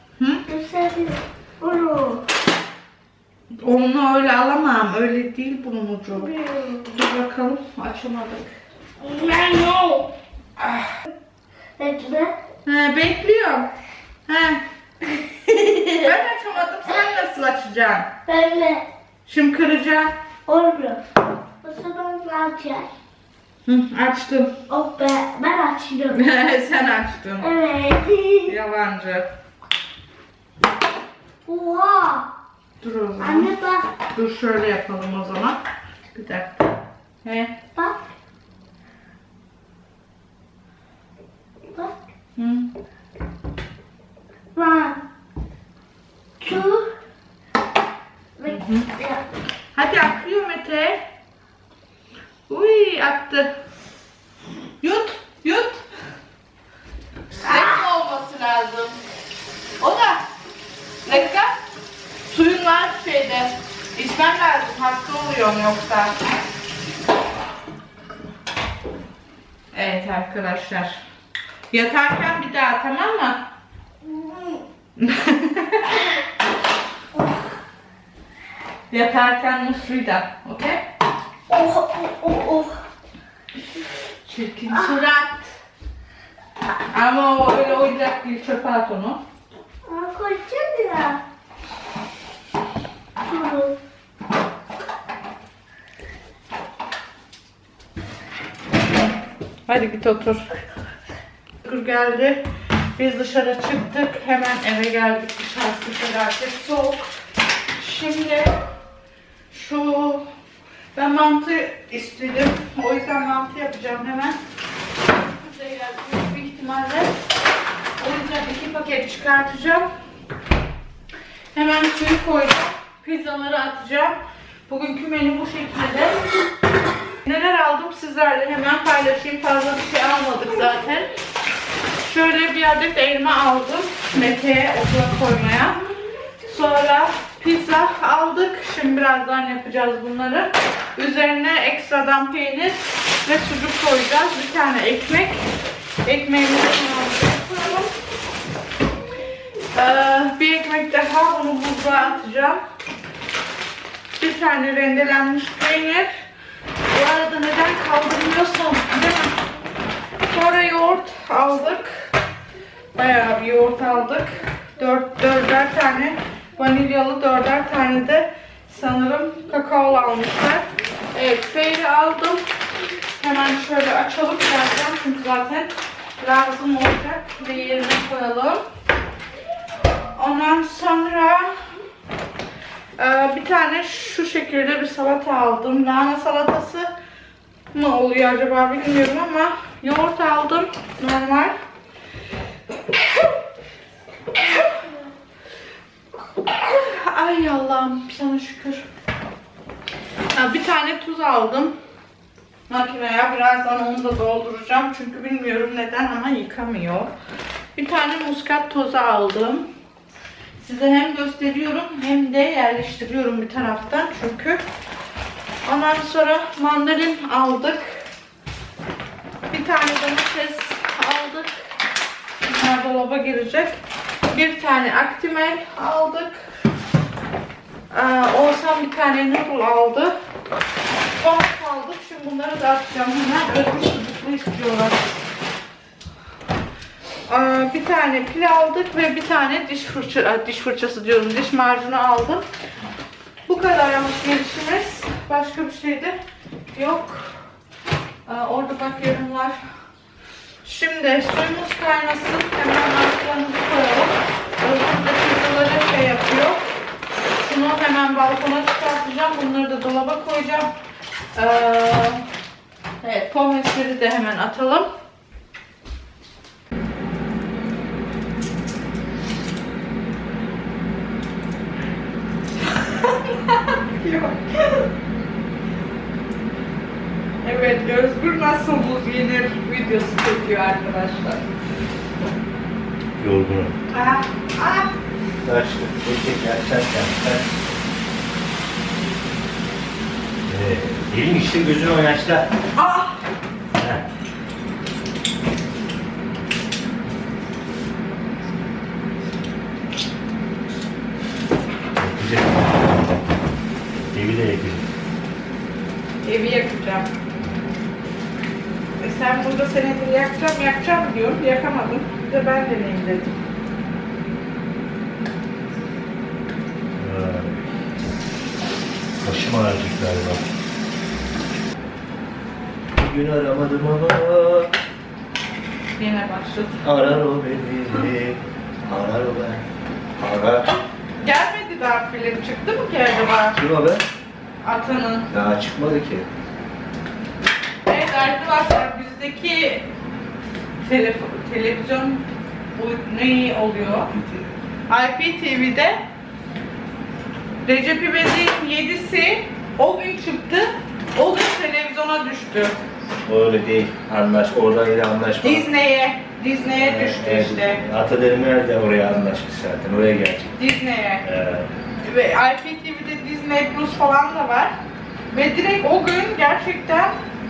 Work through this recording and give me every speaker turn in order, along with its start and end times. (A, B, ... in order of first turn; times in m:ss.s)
0:00.2-0:00.4 A
0:00.5-0:02.3 B
0:03.6-0:08.5 A
0:06.1-0:06.9 B
0:09.0-0:10.1 B
0:10.6-0:10.9 A
0:11.8-0:12.4 B
0:12.6-0:13.7 A
0:14.3-0:14.6 A
0:15.4-0:16.0 B
0:15.7-0:18.1 A
0:18.3-0:18.9 B
0:19.2-0:20.1 A
0:20.5-0:21.0 B
0:21.6-0:22.9 B
0:23.6-0:24.6 A
0:24.7-0:26.2 B
0:26.1-0:27.5 A
0:27.4-0:28.5 B
0:28.4-0:29.3 A
0:31.4-0:32.3 B
0:32.8-0:33.5 A
0:33.2-0:33.9 B
0:34.1-0:35.6 A
0:36.1-0:37.6 A
0:37.8-0:38.1 B
0:42.4-0:42.7 A
0:44.5-0:45.0 B
0:46.4-0:46.9 B
0:48.4-0:49.2 B
0:48.4-0:48.9 A
0:49.7-0:51.0 A
0:52.5-0:53.5 A
0:54.8-0:55.8 A
0:57.4-0:59.0 A
0:59.8-1:00.2 A
1:01.0-1:01.6 A
1:02.3-1:06.4 A
1:09.7-1:11.0 A
1:11.7-1:13.4 A
1:15.0-1:16.0 A
1:18.9-1:20.8 A
1:21.5-1:22.8 B
1:24.2-1:25.5 A
1:26.9-1:29.2 A
1:29.9-1:31.2 B
1:33.2-1:33.8 B
1:39.7-1:40.5 A
1:41.6-1:42.4 A
1:43.0-1:47.1 A
1:47.8-1:48.6 A
1:49.5-1:50.2 A
1:50.9-1:54.4 A
1:55.1-1:57.2 A
1:58.0-1:59.9 A
2:01.5-2:04.2 A
2:04.7-2:06.2 A
2:07.2-2:11.1 A
2:12.0-2:15.8 A
2:16.4-2:25.4 A
2:26.0-2:27.9 A
2:29.7-2:32.6 A
2:34.2-2:36.1 A
2:36.9-2:39.4 A
2:40.3-2:42.1 A
2:42.9-2:52.4 A
2:53.1-2:58.6 A
3:00.1-3:01.5 A
3:03.0-3:06.9 A
3:07.7-3:11.5 A
3:16.4-3:18.8 A
3:20.3-3:21.7 A
3:22.7-3:27.1 A
3:27.7-3:29.7 A
3:30.6-3:34.6 A
3:35.6-3:38.0 A
3:39.5-3:41.5 A
3:42.4-3:43.8 A
3:44.3-3:46.4 A
3:47.9-3:50.1 A
3:51.1-3:55.2 A
3:57.3-4:02.4 A
4:03.4-4:06.2 A
4:06.7-4:07.4 A
4:08.2-4:09.6 A
4:10.6-4:16.6 A
4:17.3-4:20.7 A
4:21.3-4:22.2 A
4:23.0-4:24.9 A
4:32.6-4:34.9 A
4:37.4-4:41.5 A
4:43.2-4:43.7 C
4:43.9-4:44.9 A
4:45.4-4:47.5 C
4:50.5-4:52.5 C
4:52.8-4:53.2 A
4:53.8-4:54.0 C
5:02.0-5:03.3 C
5:04.1-5:04.9 C
5:06.2-5:07.1 A
5:09.0-5:13.4 A
5:17.0-5:17.6 C
5:19.2-5:20.4 C
5:23.0-5:24.7 C
5:26.0-5:26.8 A
5:26.8-5:29.6 C
5:30.2-5:30.7 C
5:31.2-5:33.6 A
5:33.6-5:34.0 C
5:34.6-5:35.3 A
5:35.3-5:36.3 C
5:37.8-5:39.9 A
5:40.8-5:44.1 A
5:44.0-5:44.5 C
5:44.9-5:46.0 A
5:47.6-5:52.7 A
5:53.2-5:55.7 C
5:55.4-5:57.8 A
5:56.7-6:00.6 C
6:00.6-6:01.2 A
6:01.2-6:01.7 C
6:02.0-6:04.7 A
6:05.3-6:07.1 A